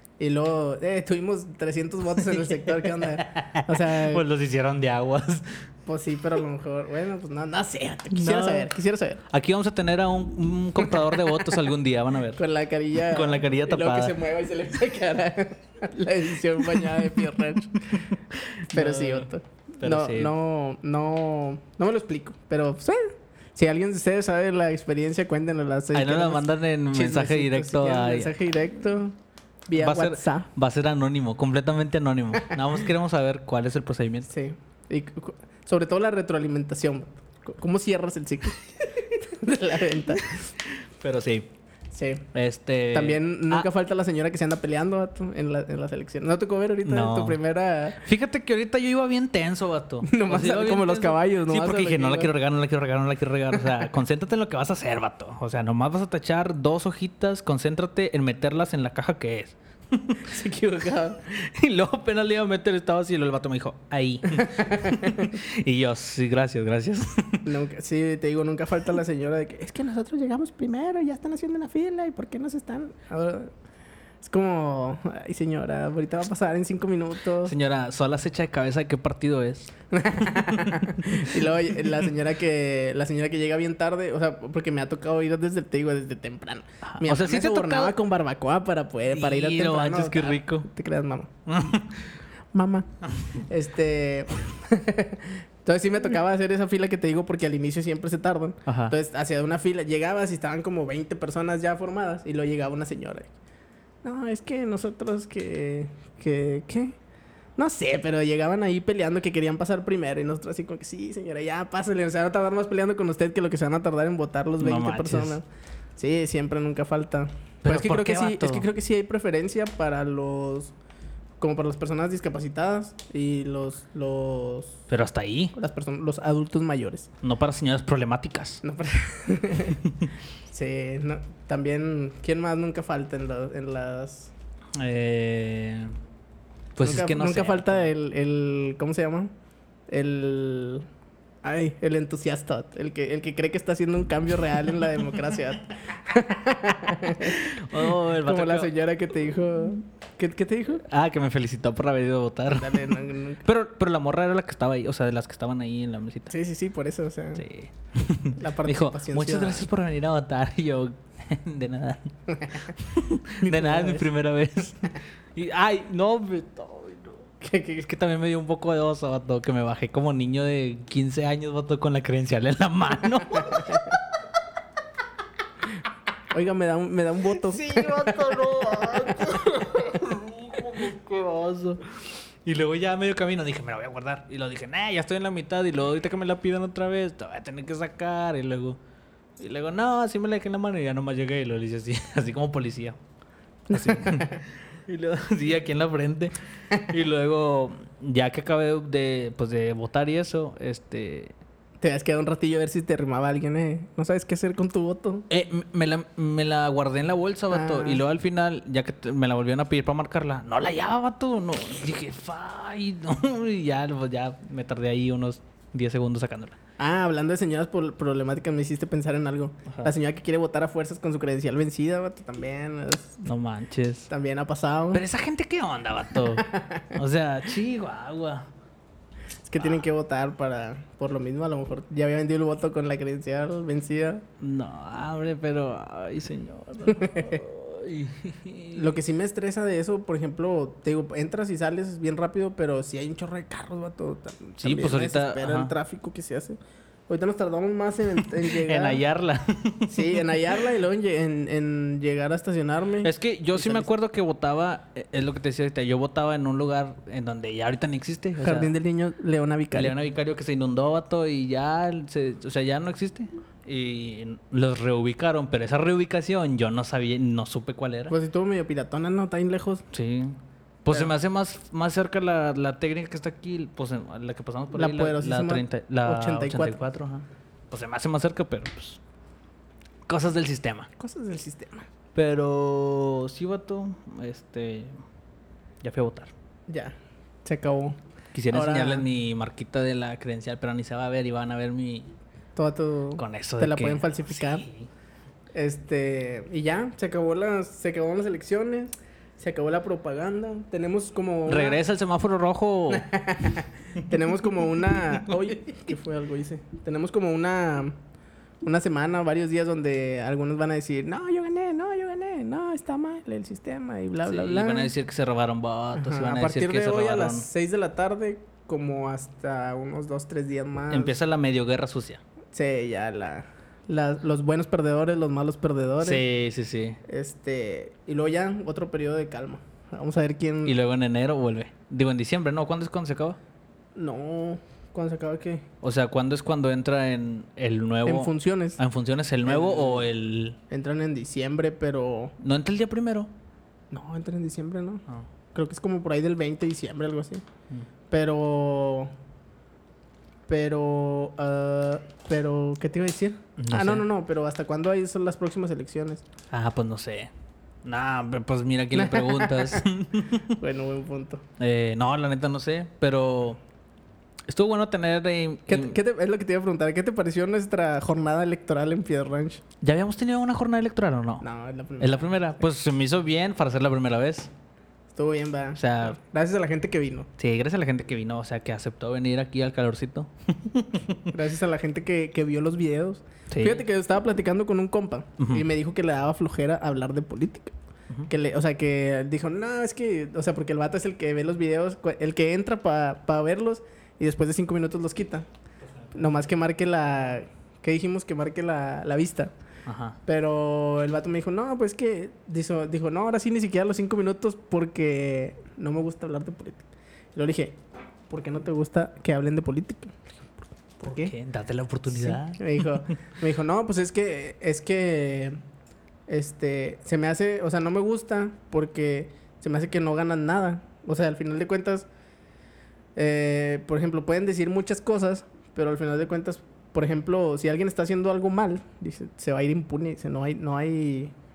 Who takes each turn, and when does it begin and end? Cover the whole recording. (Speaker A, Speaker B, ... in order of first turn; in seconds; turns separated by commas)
Speaker A: 0.2-4.2, Speaker B: 2.8-5.6, Speaker A: 5.8-9.2, Speaker B: 8.1-8.7, Speaker B: 9.3-12.4, Speaker A: 10.8-11.6, Speaker A: 12.3-18.0, Speaker B: 13.1-14.2, Speaker B: 17.8-20.3, Speaker A: 18.7-30.5, Speaker B: 25.9-28.3, Speaker B: 29.7-34.3, Speaker A: 34.3-40.4, Speaker B: 40.3-41.5, Speaker A: 41.9-42.2, Speaker B: 42.3-43.7, Speaker A: 42.9-48.0, Speaker B: 46.8-47.4, Speaker B: 48.0-60.2, Speaker A: 50.0-52.3, Speaker A: 60.2-61.2, Speaker B: 61.2-67.5, Speaker A: 64.3-65.3, Speaker A: 67.4-73.5, Speaker A: 74.2-77.5, Speaker B: 77.4-79.7, Speaker A: 79.9-91.3, Speaker B: 80.2-81.9, Speaker B: 86.8-88.0, Speaker B: 89.1-90.7, Speaker B: 91.5-92.1, Speaker A: 92.5-103.3, Speaker B: 98.7-98.9, Speaker A: 104.0-107.0, Speaker A: 107.6-115.4, Speaker B: 114.6-115.4, Speaker A: 116.0-120.7, Speaker B: 117.6-118.7, Speaker A: 121.4-124.8, Speaker B: 124.9-125.5, Speaker A: 125.5-127.1, Speaker B: 127.2-128.6, Speaker A: 128.6-129.8, Speaker A: 130.5-134.3, Speaker B: 134.8-135.9, Speaker B: 136.8-137.9, Speaker A: 136.8-139.3, Speaker A: 139.9-140.9, Speaker A: 141.4-150.8, Speaker B: 147.2-148.7, Speaker B: 150.8-156.3, Speaker A: 152.5-153.4, Speaker A: 156.3-157.4, Speaker B: 157.4-162.1, Speaker A: 158.4-159.7, Speaker A: 162.3-162.7, Speaker B: 162.6-167.3, Speaker A: 163.4-164.1, Speaker A: 167.4-167.9, Speaker B: 167.8-174.0, Speaker A: 173.4-173.8, Speaker A: 176.3-179.3, Speaker B: 177.4-181.8, Speaker B: 182.4-188.8, Speaker B: 189.4-193.0, Speaker A: 193.7-194.4, Speaker B: 193.7-201.3, Speaker A: 201.8-205.3, Speaker B: 205.3-216.6, Speaker A: 207.5-208.0, Speaker A: 216.8-223.2, Speaker B: 223.2-224.1, Speaker A: 224.1-225.0, Speaker B: 224.9-228.5, Speaker A: 226.2-227.0, Speaker A: 229.4-234.2, Speaker B: 234.4-238.9, Speaker A: 236.9-237.4, Speaker A: 238.7-249.0, Speaker B: 244.6-245.7, Speaker B: 248.4-250.4, Speaker A: 249.9-253.9, Speaker B: 253.0-258.7, Speaker A: 258.4-259.9, Speaker B: 259.7-268.1, Speaker A: 268.1-269.8, Speaker B: 269.9-279.0, Speaker A: 274.7-276.8, Speaker B: 280.1-280.9, Speaker A: 281.0-281.9, Speaker B: 282.1-285.0, Speaker B: 285.8-286.3, Speaker A: 286.7-288.0, Speaker B: 288.3-292.1, Speaker A: 288.5-289.1, Speaker A: 292.6-294.6, Speaker B: 293.2-294.9, Speaker A: 295.5-301.8, Speaker B: 301.5-303.1, Speaker A: 302.9-308.0, Speaker A: 308.6-314.9, Speaker B: 314.2-317.5, Speaker A: 315.9-321.2, Speaker B: 320.9-322.2, Speaker A: 322.5-326.2, Speaker B: 326.0-327.0, Speaker A: 327.0-330.8, Speaker B: 330.6-333.4, Speaker A: 333.9-335.6, Speaker B: 335.8-340.6, Speaker A: 338.1-338.8, Speaker A: 339.4-340.1, Speaker A: 340.7-342.3, Speaker B: 342.4-343.3, Speaker A: 343.9-347.4, Speaker A: 348.1-349.1, Speaker A: 350.5-356.2, Speaker B: 353.6-354.1, Speaker B: 356.5-357.3, Speaker B: 357.8-360.6, Speaker A: 358.9-359.8, Speaker A: 360.5-361.4, Speaker B: 361.6-363.6, Speaker B: 364.5-365.9, Speaker A: 365.7-369.6, Speaker B: 369.8-371.4, Speaker A: 371.4-372.5, Speaker B: 372.0-374.5, Speaker A: 375.1-377.3, Speaker B: 375.8-376.1, Speaker B: 377.4-381.3, Speaker A: 381.3-387.7, Speaker B: 383.5-383.8, Speaker B: 385.4-385.6, Speaker A: 388.3-395.4, Speaker A: 396.1-399.5, Speaker B: 399.9-400.2, Speaker A: 400.2-410.5, Speaker A: 411.0-411.3, Speaker B: 411.0-413.1, Speaker A: 412.1-415.6, Speaker A: 416.3-422.1, Speaker A: 423.1-431.3